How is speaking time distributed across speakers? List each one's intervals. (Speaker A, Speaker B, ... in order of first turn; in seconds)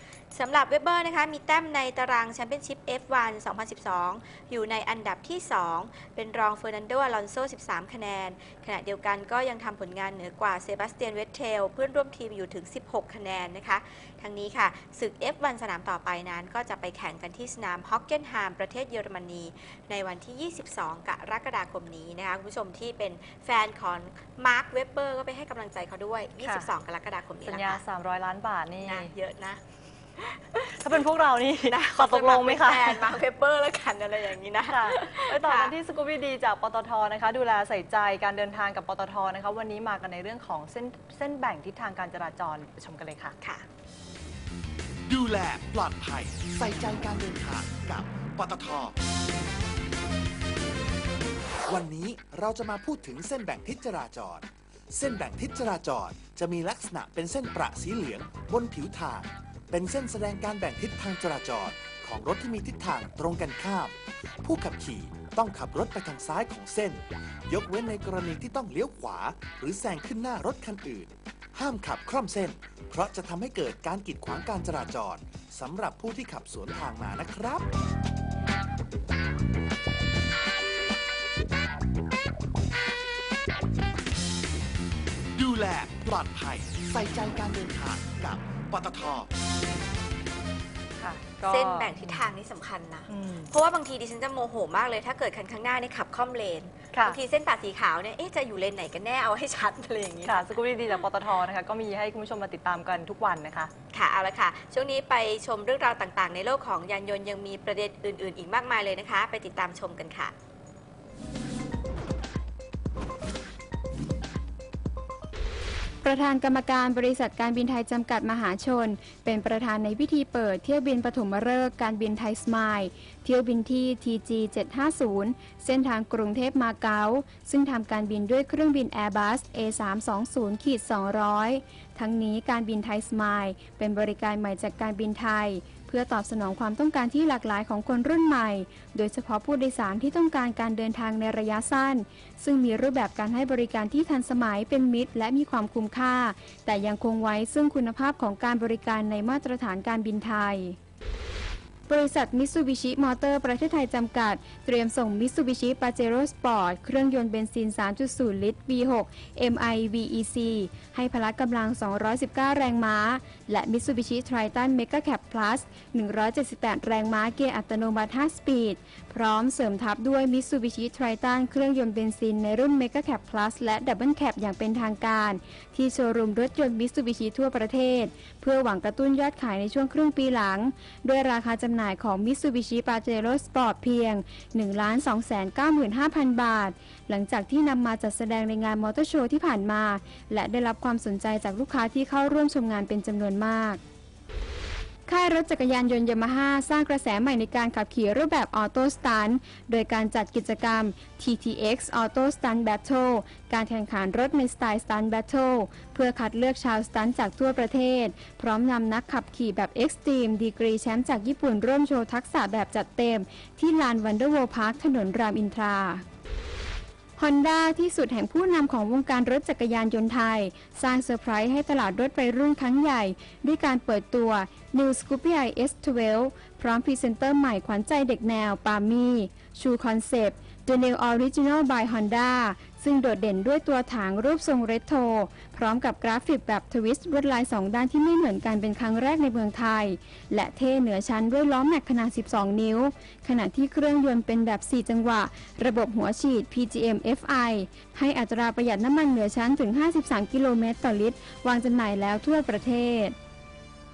Speaker A: 0.3-27.8, 28.8-29.6, 30.2-30.9, 31.6-35.8, 43.4-43.7, 91.4-100.6, 103.9-110.3
Speaker B: 26.4-26.7, 27.5-29.1, 30.8-33.2, 34.7-43.3, 91.0-92.3, 93.1-93.5, 96.9-97.2, 100.2-103.7
Speaker C: 45.1-48.9, 51.7-77.6, 85.4-89.3
Speaker D: 116.0-150.8, 151.9-193.8, 195.1-216.0, 217.2-253.1